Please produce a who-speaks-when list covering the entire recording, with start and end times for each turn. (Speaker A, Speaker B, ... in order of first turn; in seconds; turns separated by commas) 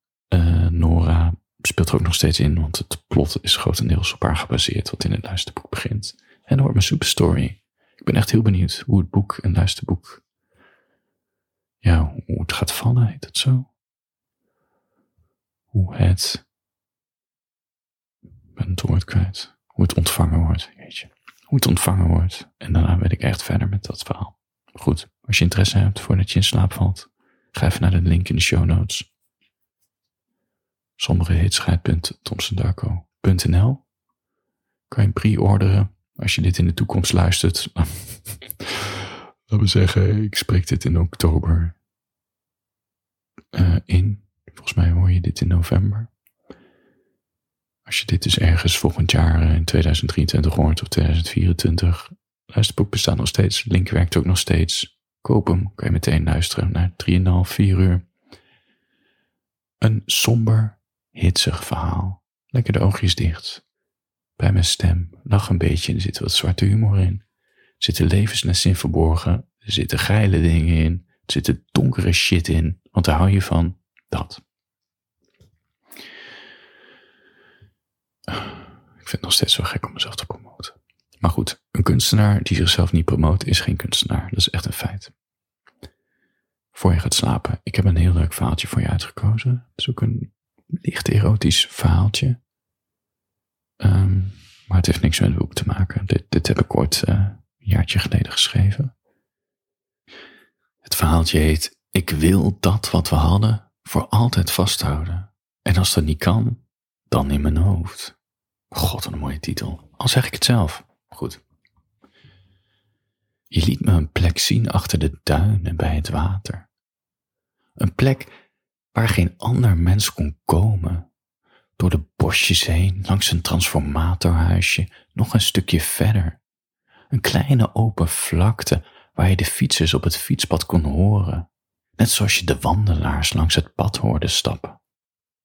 Speaker A: 0.3-10.2, Speaker A: 11.8-13.7, Speaker A: 15.7-16.4, Speaker A: 18.6-29.1, Speaker A: 31.0-33.8, Speaker A: 34.9-41.8, Speaker A: 43.5-46.1, Speaker A: 47.9-58.0, Speaker A: 59.8-63.6, Speaker A: 64.4-67.2, Speaker A: 67.8-74.4, Speaker A: 78.3-85.1, Speaker A: 86.7-92.4, Speaker A: 93.8-98.9, Speaker A: 100.8-108.2, Speaker A: 108.7-111.4, Speaker A: 113.5-116.7, Speaker A: 117.8-118.3, Speaker A: 118.9-121.1, Speaker A: 121.8-126.4, Speaker A: 127.1-134.8